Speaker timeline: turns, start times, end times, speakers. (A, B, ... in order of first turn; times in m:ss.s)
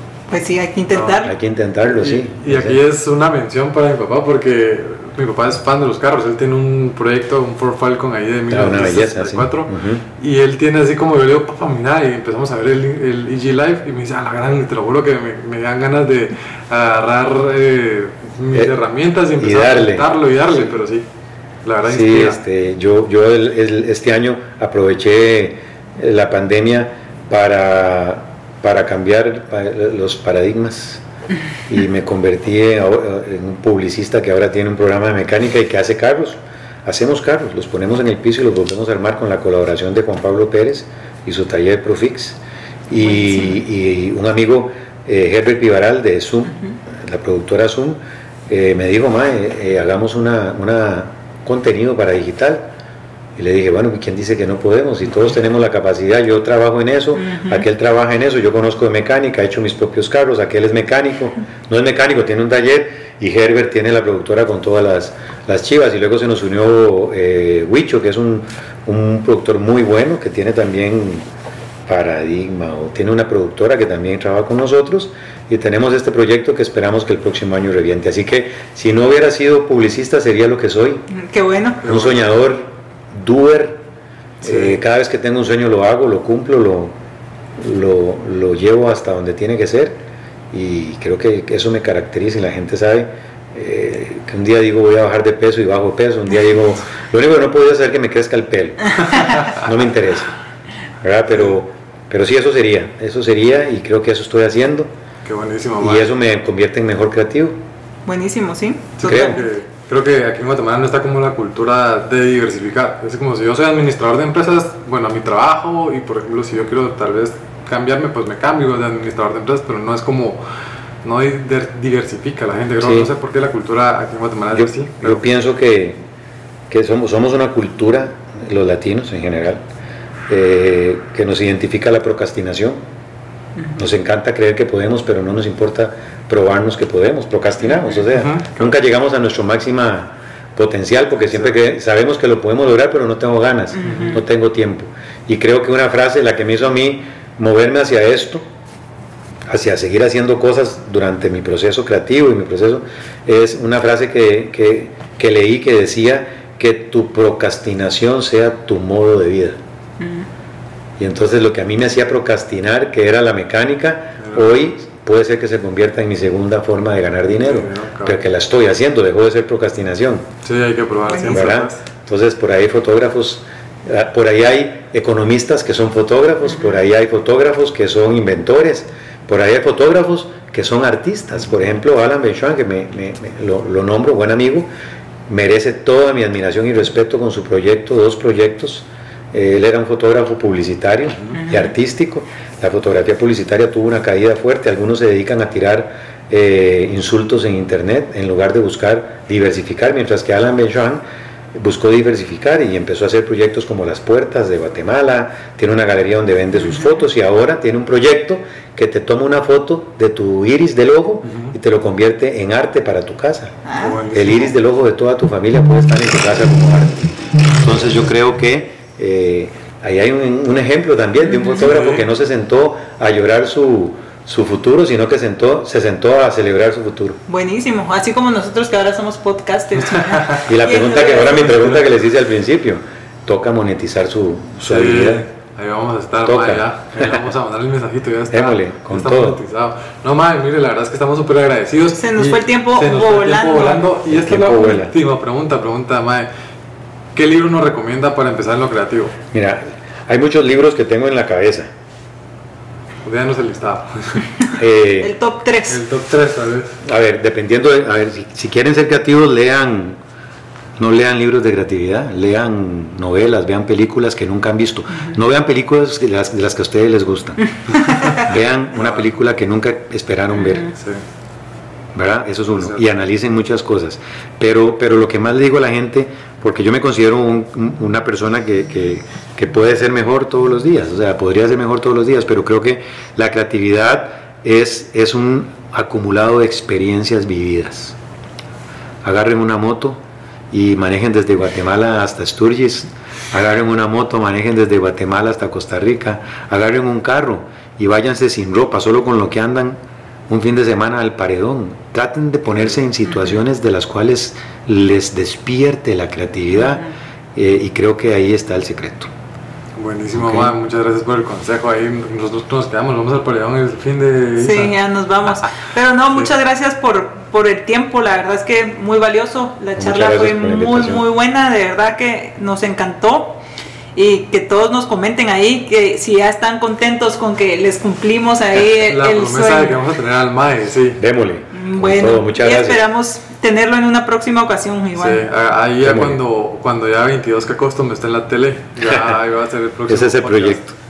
0:00.3-0:01.3 A
0:01.2-0:02.8 B
0:01.9-0:21.1 C
0:08.5-0:10.0 B
0:19.4-0:20.1 B
0:21.6-0:22.4 C
0:21.8-0:31.0 B
0:31.7-0:42.4 B
0:42.9-0:52.7 B
0:53.4-1:11.2 B
1:11.9-1:21.1 B
1:21.1-1:21.8 A
1:21.8-1:22.3 C
1:21.8-1:23.8 B
1:24.4-1:24.8 C
1:24.4-1:26.9 B
1:27.6-1:30.0 B
1:30.5-1:40.3 B
1:41.0-1:44.9 B
1:45.2-1:46.1 C
1:45.8-1:47.6 B
1:48.1-1:49.4 A
1:49.0-2:00.4 C
1:49.0-1:49.4 B
2:01.0-2:05.2 C
2:02.8-2:03.1 B
2:04.5-2:06.0 B
2:06.7-2:09.6 B
2:10.3-2:12.8 B
2:13.8-2:28.4 B
2:18.1-2:18.7 C
2:23.8-2:24.2 A
2:23.8-2:24.2 C
2:29.5-2:39.6 B
2:40.0-2:40.3 A
2:41.0-2:50.3 B
2:44.2-2:44.5 C
2:47.4-2:48.2 C
2:50.4-2:51.8 C
2:51.1-2:51.4 A
2:51.3-3:04.7 B
3:05.3-3:21.0 B
3:11.4-3:11.7 A
3:21.5-3:33.6 B
3:31.3-3:31.6 C
3:33.7-3:34.0 A
3:33.8-3:34.6 C
3:34.1-3:37.0 B
3:37.6-3:47.2 B
3:41.3-3:41.6 A
3:41.6-3:42.1 C
3:47.3-3:51.6 A
3:49.9-3:50.4 C
3:50.5-3:55.3 B
3:51.5-3:51.8 C
3:54.6-4:06.3 C
3:56.2-3:57.2 B
3:58.3-3:59.4 B
4:02.0-4:03.8 A
4:04.1-4:04.9 B
4:07.2-4:09.2 C
4:09.3-4:11.7 B
4:13.0-4:14.4 C
4:14.6-4:15.1 B
4:15.0-4:15.8 A
4:15.7-4:16.7 C
4:16.8-4:20.0 B
4:20.8-4:27.5 B
4:28.1-4:30.7 B
4:28.8-4:29.0 C
4:30.7-4:31.0 C
4:32.0-4:48.0 B
4:49.0-4:50.0 B
4:50.5-4:59.8 B
5:00.3-5:06.8 B
5:07.4-5:09.1 B
5:09.8-5:14.8 C
5:10.1-5:10.5 B
5:14.4-5:23.4 A
5:19.8-5:21.0 B
5:24.0-5:29.8 A
5:28.6-5:31.0 C
5:31.0-5:32.9 B
5:31.5-5:35.2 A
5:35.0-5:40.6 C
5:35.8-5:36.2 B
5:38.9-5:39.1 B
5:39.9-5:40.7 B